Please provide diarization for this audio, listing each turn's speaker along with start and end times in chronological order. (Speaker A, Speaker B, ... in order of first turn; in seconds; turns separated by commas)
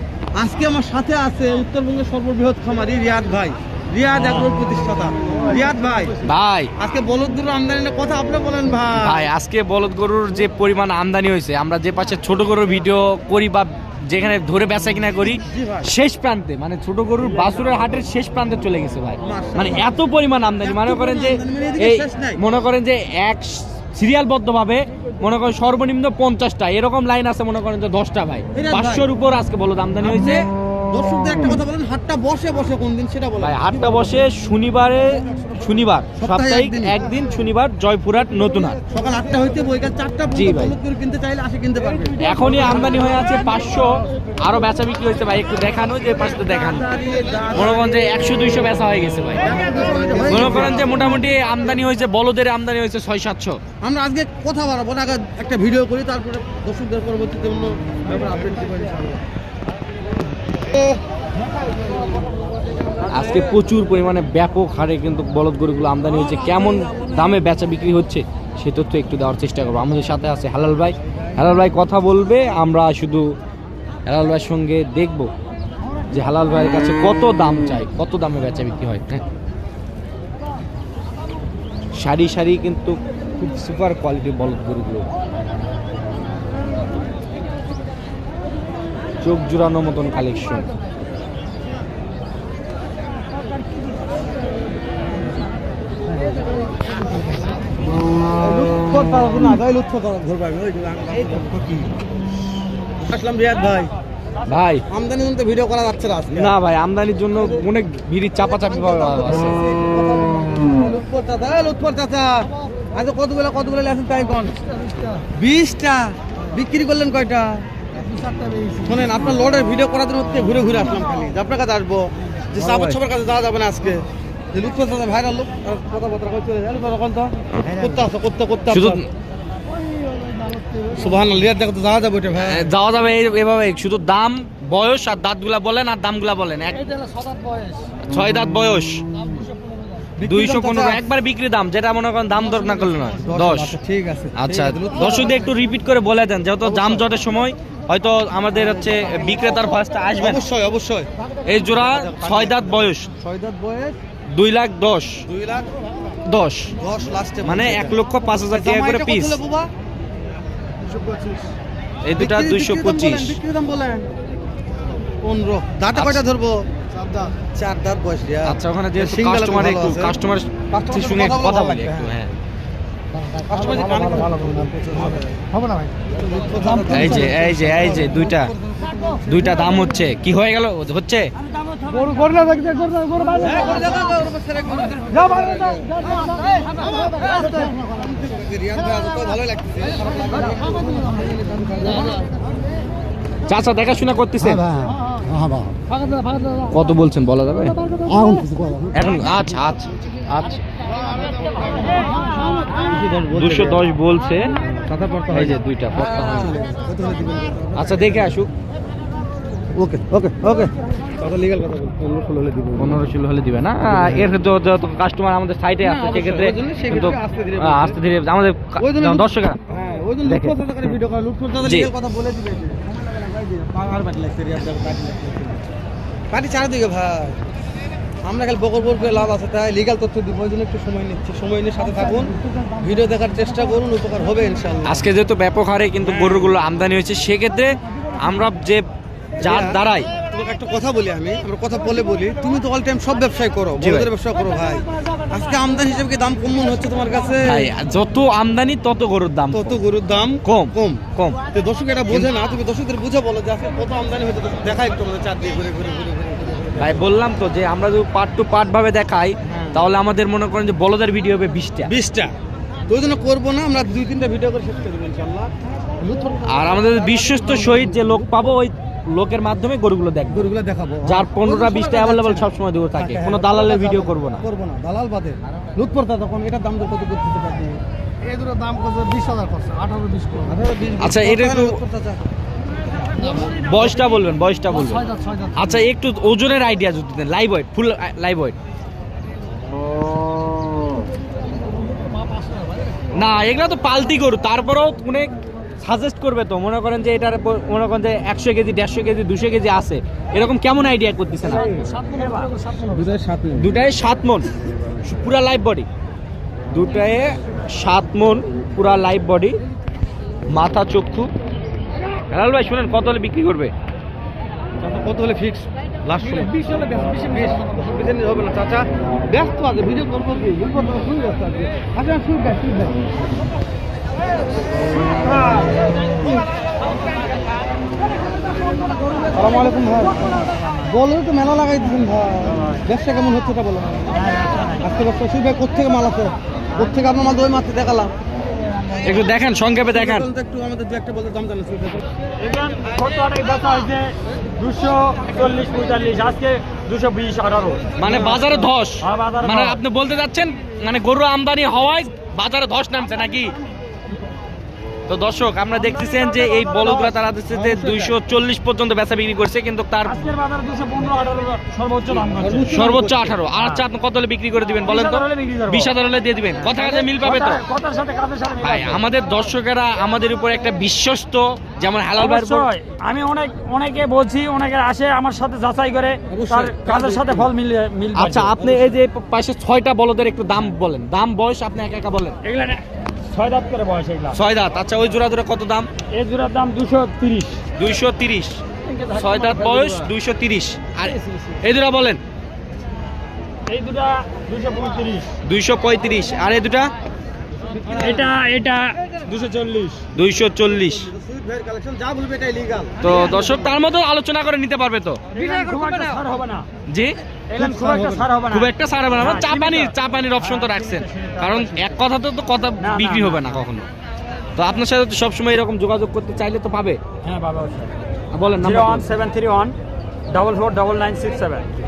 Speaker A: 0.3-6.2, Speaker B: 6.2-6.7, Speaker A: 6.8-9.3, Speaker B: 9.0-30.5, Speaker A: 15.4-15.9, Speaker A: 19.2-20.0, Speaker A: 20.6-22.4, Speaker A: 28.5-29.0, Speaker A: 30.9-33.7, Speaker B: 33.4-38.8, Speaker A: 36.1-37.0, Speaker A: 38.9-42.2, Speaker B: 40.3-40.7, Speaker B: 42.2-46.9, Speaker A: 46.1-48.1, Speaker B: 47.5-49.5, Speaker A: 49.4-51.1, Speaker B: 50.3-53.6, Speaker A: 53.8-59.2, Speaker B: 63.1-73.3, Speaker B: 74.0-75.3, Speaker B: 76.1-79.2, Speaker B: 82.0-85.0, Speaker B: 89.2-90.7, Speaker A: 98.3-101.9, Speaker A: 103.0-103.9, Speaker B: 104.5-104.8, Speaker A: 104.9-106.5, Speaker B: 106.3-109.5, Speaker A: 108.4-114.5, Speaker A: 115.3-117.6, Speaker C: 118.4-118.7, Speaker A: 118.8-129.0, Speaker B: 128.7-129.1, Speaker A: 130.9-132.7, Speaker B: 132.4-137.0, Speaker B: 138.1-139.0, Speaker A: 140.2-141.0, Speaker B: 140.2-143.7, Speaker A: 143.2-145.4, Speaker B: 144.3-150.4, Speaker A: 146.6-147.1, Speaker A: 150.2-151.1, Speaker B: 151.4-153.1, Speaker A: 151.7-154.0, Speaker B: 154.3-155.2, Speaker A: 155.2-155.7, Speaker B: 156.2-156.7, Speaker A: 156.8-159.7, Speaker B: 157.4-159.4, Speaker B: 162.0-163.4, Speaker A: 162.2-164.1, Speaker A: 165.2-166.6, Speaker B: 165.9-166.2, Speaker A: 167.3-170.2, Speaker B: 168.4-172.3, Speaker A: 170.7-172.1, Speaker A: 173.5-175.4, Speaker A: 176.1-179.5, Speaker B: 176.9-178.5, Speaker B: 179.2-181.3, Speaker C: 182.0-183.4, Speaker A: 183.4-192.2, Speaker B: 193.5-194.7, Speaker B: 196.7-197.8, Speaker B: 198.9-200.6, Speaker A: 202.7-203.8, Speaker B: 203.3-204.5, Speaker A: 204.6-208.3, Speaker B: 205.3-206.5, Speaker B: 207.7-208.5, Speaker A: 209.7-213.0, Speaker B: 212.8-219.6, Speaker A: 213.9-214.3, Speaker A: 215.8-218.0, Speaker A: 218.8-225.6, Speaker B: 220.2-220.6, Speaker B: 221.6-221.9, Speaker A: 226.3-227.4, Speaker A: 228.2-235.1, Speaker B: 234.8-238.8, Speaker B: 239.4-240.1, Speaker A: 239.4-247.7, Speaker B: 243.8-244.1, Speaker B: 247.4-249.8, Speaker A: 249.5-256.9, Speaker B: 250.4-251.4, Speaker B: 256.8-261.9, Speaker A: 259.5-259.8, Speaker A: 261.9-262.3, Speaker A: 262.9-268.2, Speaker B: 266.4-270.5, Speaker A: 270.3-277.8, Speaker B: 271.1-274.4, Speaker C: 278.4-280.3, Speaker A: 280.4-282.2, Speaker B: 281.0-281.8, Speaker B: 283.4-288.6, Speaker B: 293.1-301.7, Speaker D: 301.5-302.6, Speaker A: 302.8-303.7, Speaker B: 303.6-304.5, Speaker B: 305.0-305.9, Speaker B: 306.7-309.6, Speaker B: 310.5-311.3, Speaker B: 312.3-313.7, Speaker A: 314.8-323.0, Speaker A: 329.3-334.3, Speaker D: 334.1-334.9, Speaker A: 334.8-338.1, Speaker B: 339.0-340.3, Speaker A: 339.9-342.0, Speaker D: 342.4-349.8, Speaker B: 347.9-353.5, Speaker A: 348.0-348.6, Speaker B: 355.1-360.2, Speaker D: 355.7-357.2, Speaker A: 357.5-358.1, Speaker D: 360.0-362.8, Speaker A: 362.3-363.4, Speaker B: 362.7-367.6, Speaker D: 363.5-363.8, Speaker D: 364.8-365.9, Speaker D: 366.6-369.0, Speaker B: 368.6-372.7, Speaker D: 372.2-378.5, Speaker A: 376.3-377.5, Speaker B: 378.1-382.4, Speaker A: 378.5-379.0, Speaker D: 382.4-384.4, Speaker B: 384.3-385.9, Speaker D: 386.1-387.6, Speaker B: 387.8-392.2, Speaker D: 388.9-389.9, Speaker D: 393.7-395.3, Speaker B: 395.4-396.9, Speaker A: 397.7-398.3, Speaker D: 398.0-400.0, Speaker B: 400.1-401.1, Speaker A: 400.8-403.0, Speaker B: 403.0-406.2, Speaker D: 403.1-403.6, Speaker D: 405.3-406.7, Speaker B: 406.9-407.1, Speaker D: 407.5-411.9, Speaker A: 407.6-408.3, Speaker B: 408.5-413.8, Speaker D: 412.8-413.5, Speaker B: 414.6-417.0, Speaker D: 417.2-417.9, Speaker B: 418.3-419.1, Speaker D: 418.6-419.8, Speaker D: 420.3-421.7